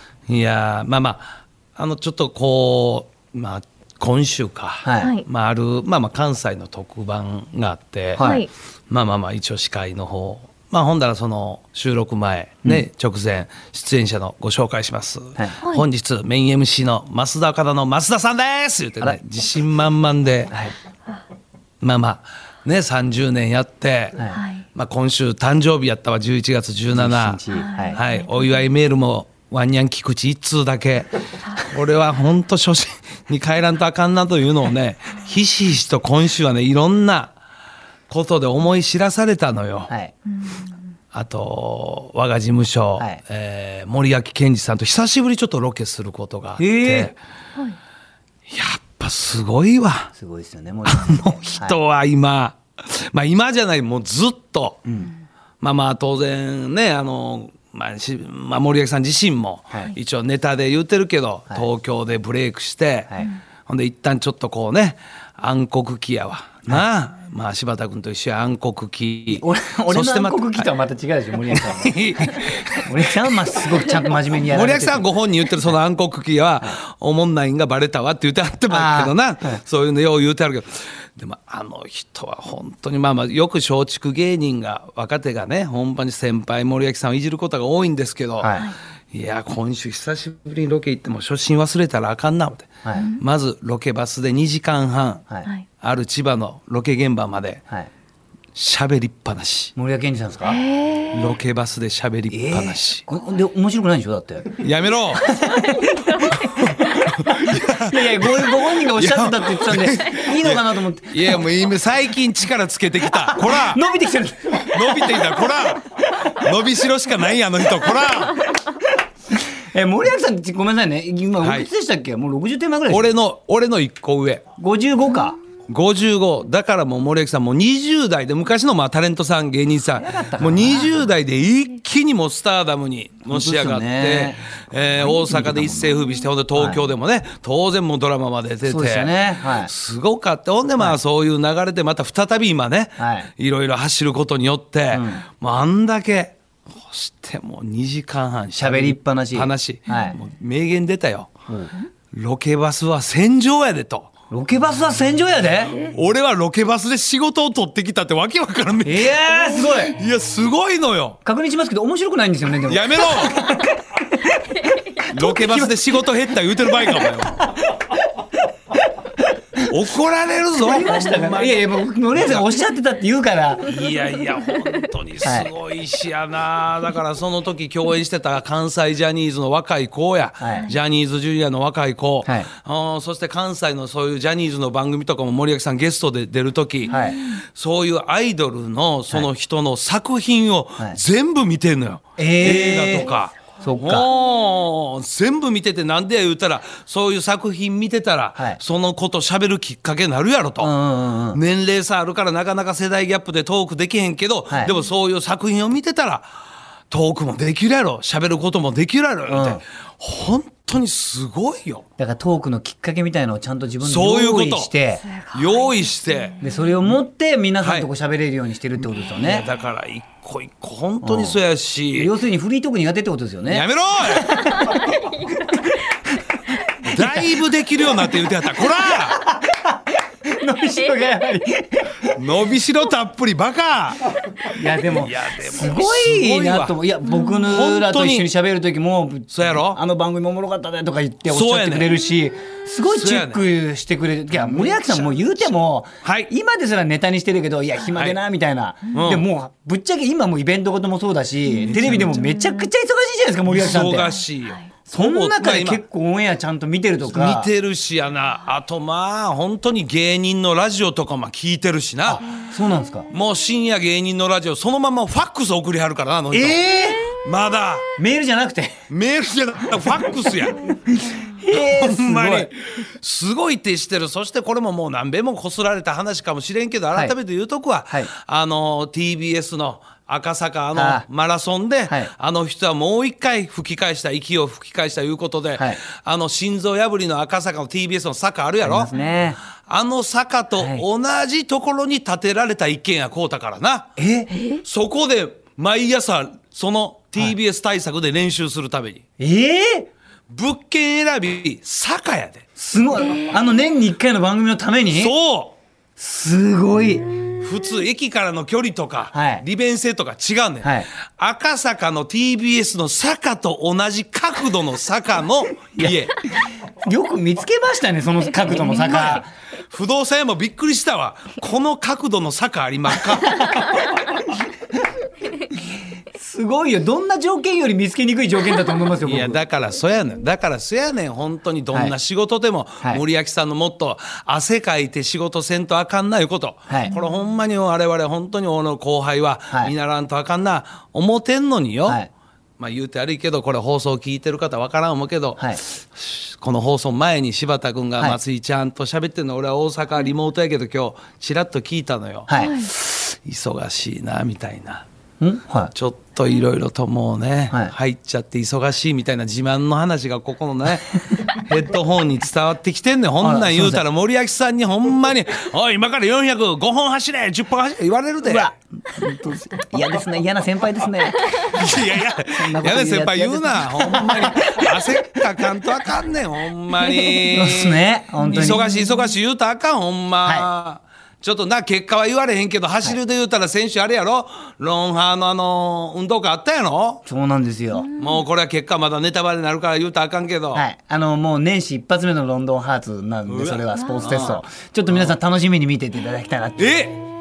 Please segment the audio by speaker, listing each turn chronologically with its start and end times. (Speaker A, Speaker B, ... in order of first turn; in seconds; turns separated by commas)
Speaker A: 0.3-8.4, Speaker B: 4.8-5.1, Speaker C: 5.0-5.2, Speaker B: 8.2-8.4, Speaker C: 8.2-8.5, Speaker A: 8.9-20.6, Speaker A: 21.8-24.2, Speaker B: 24.1-24.4, Speaker C: 24.3-24.6, Speaker A: 24.7-27.4, Speaker B: 26.9-28.0, Speaker C: 27.5-28.3, Speaker A: 27.9-37.3, Speaker A: 38.1-39.9, Speaker C: 40.4-40.7, Speaker A: 41.1-47.1, Speaker B: 46.6-47.1, Speaker A: 48.5-50.1, Speaker B: 50.1-51.8, Speaker A: 50.9-54.8, Speaker B: 54.9-55.1, Speaker A: 55.6-70.7, Speaker B: 69.3-75.7, Speaker A: 71.4-88.6, Speaker B: 78.7-79.6, Speaker B: 88.4-88.7, Speaker A: 89.1-95.2, Speaker C: 92.9-93.2, Speaker A: 95.8-97.6, Speaker A: 98.5-99.7, Speaker B: 99.8-100.6, Speaker C: 100.4-101.3, Speaker A: 101.1-103.0, Speaker B: 102.3-111.5, Speaker A: 104.6-105.3, Speaker C: 105.4-106.9, Speaker A: 106.4-113.8, Speaker B: 113.1-115.7, Speaker A: 114.7-118.5, Speaker B: 119.3-123.1, Speaker A: 121.4-121.7, Speaker A: 122.9-124.4, Speaker B: 124.6-125.3, Speaker A: 125.7-151.3, Speaker B: 129.9-131.1, Speaker B: 133.3-136.8, Speaker B: 138.7-139.7, Speaker B: 143.0-143.3, Speaker B: 144.9-145.2, Speaker B: 148.6-150.2, Speaker B: 151.5-151.7, Speaker A: 152.1-154.1, Speaker B: 154.3-155.8, Speaker A: 155.7-161.2, Speaker B: 158.8-159.9, Speaker B: 161.2-164.5, Speaker A: 162.7-163.5, Speaker C: 164.5-165.0, Speaker A: 165.1-167.5, Speaker B: 165.1-166.1, Speaker B: 166.7-168.0, Speaker A: 169.6-172.5, Speaker B: 170.6-173.8, Speaker A: 173.6-200.7, Speaker B: 175.2-175.5, Speaker B: 180.4-180.7, Speaker C: 186.9-187.3, Speaker B: 186.9-187.2, Speaker B: 192.2-194.1, Speaker B: 200.6-201.4, Speaker A: 201.3-206.3, Speaker A: 206.9-211.8, Speaker B: 209.3-209.6, Speaker B: 212.0-215.0, Speaker A: 213.8-214.7, Speaker C: 215.0-216.7, Speaker A: 215.3-216.4, Speaker B: 216.4-219.4, Speaker A: 217.6-217.9, Speaker A: 218.8-222.1, Speaker B: 221.0-221.4, Speaker B: 221.9-224.9, Speaker A: 223.5-224.4, Speaker C: 224.3-226.1, Speaker B: 225.5-225.8, Speaker B: 226.8-227.4, Speaker A: 226.9-229.2, Speaker B: 228.7-232.2, Speaker C: 230.6-231.3, Speaker A: 232.1-236.8, Speaker B: 234.5-254.1, Speaker C: 237.0-237.5, Speaker A: 237.4-238.3, Speaker A: 239.3-239.8, Speaker A: 241.3-241.9, Speaker A: 242.8-243.4, Speaker A: 244.3-246.3, Speaker A: 247.9-248.2, Speaker A: 248.9-249.2, Speaker C: 251.5-252.7, Speaker A: 251.6-252.2, Speaker A: 253.4-255.8, Speaker C: 254.4-254.7, Speaker B: 254.9-257.5, Speaker A: 257.1-262.2, Speaker B: 262.0-263.1, Speaker A: 263.1-267.8, Speaker B: 266.3-267.2, Speaker B: 268.0-268.7, Speaker A: 268.9-270.7, Speaker B: 269.7-272.5, Speaker A: 271.5-288.9, Speaker B: 280.7-281.1, Speaker B: 288.6-289.4, Speaker A: 289.5-293.9, Speaker B: 290.6-290.8, Speaker B: 294.0-294.3, Speaker C: 294.3-294.6, Speaker A: 294.6-299.0, Speaker B: 299.2-299.9, Speaker A: 300.3-302.4, Speaker B: 302.6-305.1, Speaker C: 302.9-303.4, Speaker A: 304.9-305.6, Speaker B: 306.0-307.1, Speaker A: 307.4-316.2, Speaker B: 309.1-309.4, Speaker B: 310.6-310.9, Speaker B: 316.6-319.3, Speaker A: 318.5-323.6, Speaker C: 318.7-319.1, Speaker B: 323.2-324.4, Speaker B: 326.1-329.4, Speaker A: 329.0-342.0, Speaker B: 336.7-336.9, Speaker A: 342.6-354.9, Speaker B: 352.3-352.6, Speaker C: 352.4-352.7, Speaker B: 355.2-355.7, Speaker A: 355.7-368.5, Speaker B: 363.2-363.8, Speaker B: 368.2-371.6, Speaker A: 371.2-387.0, Speaker B: 372.3-375.0, Speaker C: 376.9-377.2, Speaker B: 377.3-378.6, Speaker C: 378.3-378.9, Speaker B: 380.2-380.5, Speaker B: 387.1-387.9, Speaker C: 387.8-388.2, Speaker A: 388.0-390.6, Speaker B: 390.5-397.0, Speaker A: 393.3-395.2, Speaker C: 393.7-394.4, Speaker A: 396.6-397.0